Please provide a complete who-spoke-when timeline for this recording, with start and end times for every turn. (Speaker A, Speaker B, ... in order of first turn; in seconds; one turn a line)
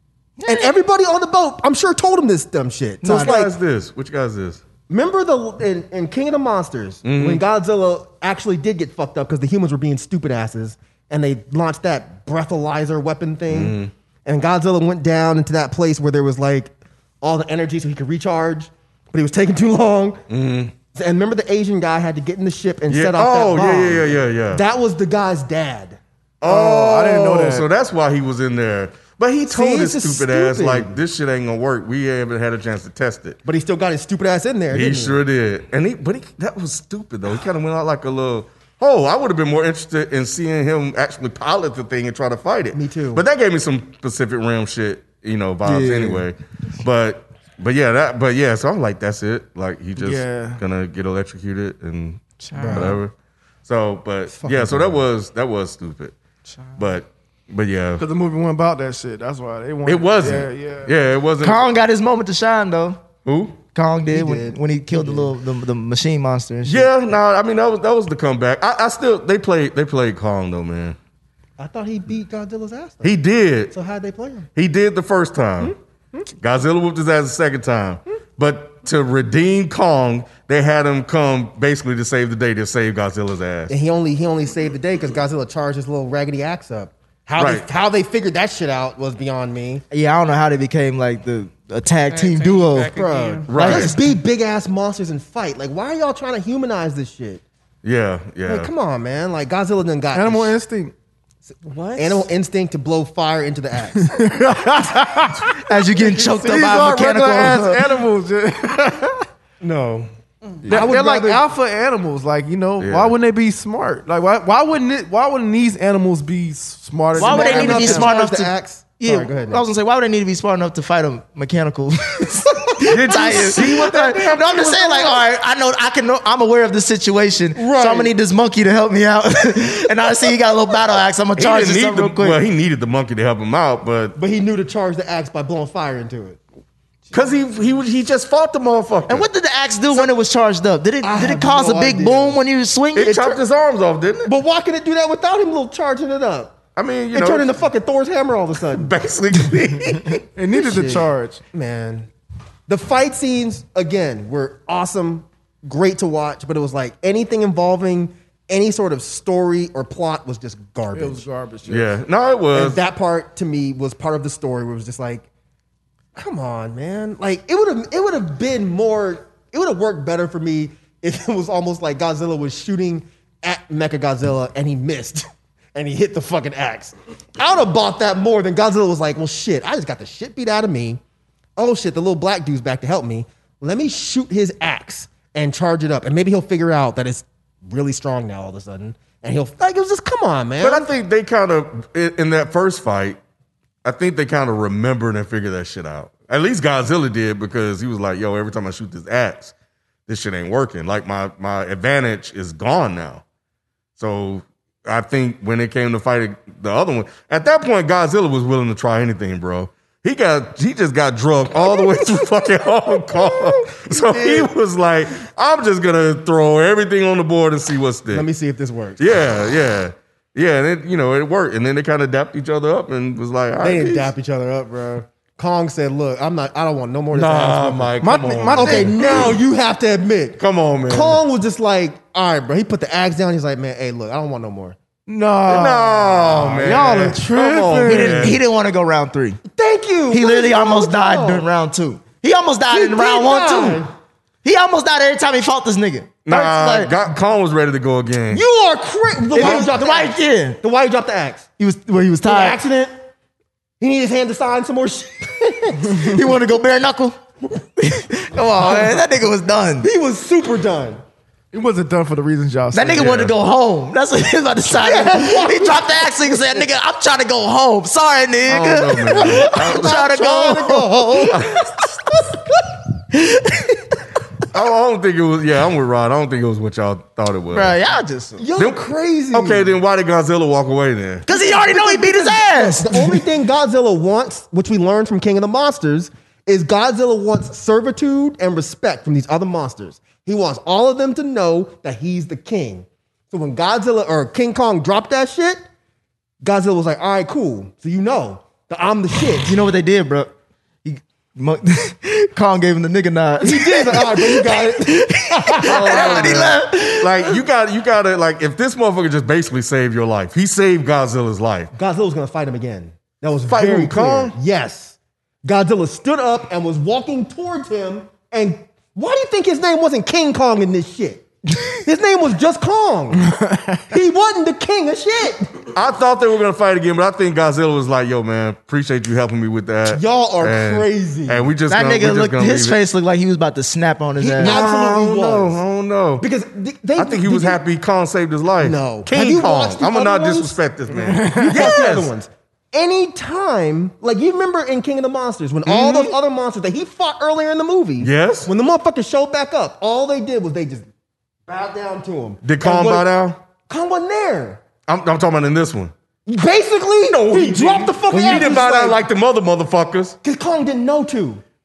Speaker A: 0.4-0.7
Speaker B: 0.5-3.5
Speaker C: 3.0-4.6
Speaker B: 4.9-20.2
Speaker C: 7.0-7.4
Speaker C: 13.5-13.9
Speaker C: 20.3-20.7
Speaker B: 20.9-26.0
Speaker C: 22.9-24.6
Speaker C: 26.4-33.4
Speaker D: 26.4-27.7
Speaker B: 29.5-31.0
Speaker B: 33.5-35.2
Speaker C: 34.7-53.1
Speaker B: 42.7-43.2
Speaker A: 45.6-46.2
Speaker D: 50.0-50.6
Speaker E: 52.4-53.0
Speaker B: 52.6-53.0
Speaker C: 53.7-56.1
Speaker B: 54.3-55.0
Speaker C: 56.8-58.0
Speaker D: 58.0-60.9
Speaker C: 59.9-61.7
Speaker A: 61.4-63.0
Speaker C: 63.2-63.6
Speaker A: 63.8-66.9
Speaker B: 64.1-65.3
Speaker C: 66.7-71.0
Speaker B: 71.6-73.2
Speaker C: 73.0-73.7
Speaker B: 73.7-74.5
Speaker C: 74.6-75.8
Speaker C: 76.4-83.7
Speaker B: 83.7-89.8
Speaker C: 87.4-87.7
Speaker A: 89.9-93.0
Speaker E: 92.1-93.5
Speaker B: 92.9-97.4
Speaker C: 93.5-94.0
Speaker A: 93.5-94.0
Speaker C: 97.8-98.7
Speaker B: 98.5-100.6
Speaker D: 100.1-100.9
Speaker E: 101.7-102.0
Speaker B: 102.0-104.1
Speaker D: 104.0-109.2
Speaker A: 105.7-107.9
Speaker B: 109.6-110.1
Speaker D: 110.7-118.1
Speaker B: 110.7-111.5
Speaker C: 112.8-113.2
Speaker B: 117.1-119.6
Speaker A: 117.2-132.4
Speaker C: 122.8-125.2
Speaker B: 127.6-128.2
Speaker C: 131.4-134.2
Speaker B: 134.2-136.4
Speaker C: 137.1-139.3
Speaker A: 139.1-143.4
Speaker B: 141.0-142.4
Speaker C: 142.9-144.3
Speaker B: 144.2-146.6
Speaker C: 146.8-147.6
Speaker B: 147.1-148.9
Speaker C: 148.8-150.2
Speaker D: 150.4-151.4
Speaker B: 150.5-152.1
Speaker B: 152.7-161.3
Speaker D: 160.9-162.0
Speaker C: 161.7-162.8
Speaker B: 162.5-165.3
Speaker B: 166.2-181.0
Speaker B: 181.6-190.9
Speaker C: 190.6-193.2
Speaker C: 193.8-199.5
Speaker C: 200.1-203.2
Speaker C: 204.0-218.3
Speaker B: 214.0-214.4
Speaker B: 218.1-219.0
Speaker C: 219.0-224.1
Speaker B: 223.6-227.9
Speaker C: 227.1-229.4
Speaker D: 228.0-229.0
Speaker B: 228.5-234.8
Speaker C: 230.4-231.2
Speaker D: 235.1-238.4
Speaker C: 235.5-238.4
Speaker A: 237.9-239.4
Speaker B: 239.5-241.5
Speaker A: 240.1-243.8
Speaker B: 242.7-243.9
Speaker A: 244.4-246.9
Speaker C: 246.2-248.4
Speaker B: 248.3-251.5
Speaker A: 249.3-250.6
Speaker C: 249.4-249.7
Speaker A: 251.6-252.6
Speaker B: 252.2-252.9
Speaker B: 253.8-256.1
Speaker A: 256.0-257.2
Speaker A: 257.8-259.9
Speaker B: 259.8-261.0
Speaker D: 261.5-263.1
Speaker A: 262.7-272.4
Speaker C: 262.9-263.3
Speaker B: 264.7-266.5
Speaker C: 268.5-270.1
Speaker B: 269.1-271.4
Speaker C: 271.3-271.8
Speaker A: 273.1-273.9
Speaker C: 274.5-277.8
Speaker A: 277.5-278.5
Speaker B: 278.4-279.8
Speaker C: 278.6-281.3
Speaker A: 281.3-283.2
Speaker B: 281.3-295.6
Speaker B: 296.4-299.5
Speaker A: 299.4-300.3
Speaker A: 300.9-307.4
Speaker B: 303.4-306.6
Speaker C: 305.7-311.7
Speaker B: 311.7-323.3
Speaker C: 313.5-314.4
Speaker D: 323.2-323.9
Speaker B: 323.9-325.5
Speaker C: 325.7-332.8
Speaker B: 329.9-331.5
Speaker A: 331.7-334.6
Speaker B: 334.2-335.6
Speaker C: 334.4-336.3
Speaker B: 336.2-337.6
Speaker C: 337.0-342.1
Speaker B: 338.6-340.6
Speaker D: 340.9-341.8
Speaker B: 341.4-350.9
Speaker C: 345.7-346.1
Speaker C: 348.0-348.5
Speaker B: 351.5-353.1
Speaker C: 352.4-353.4
Speaker B: 353.7-354.6
Speaker C: 354.9-355.9
Speaker B: 356.3-359.0
Speaker C: 357.1-360.2
Speaker B: 360.2-361.4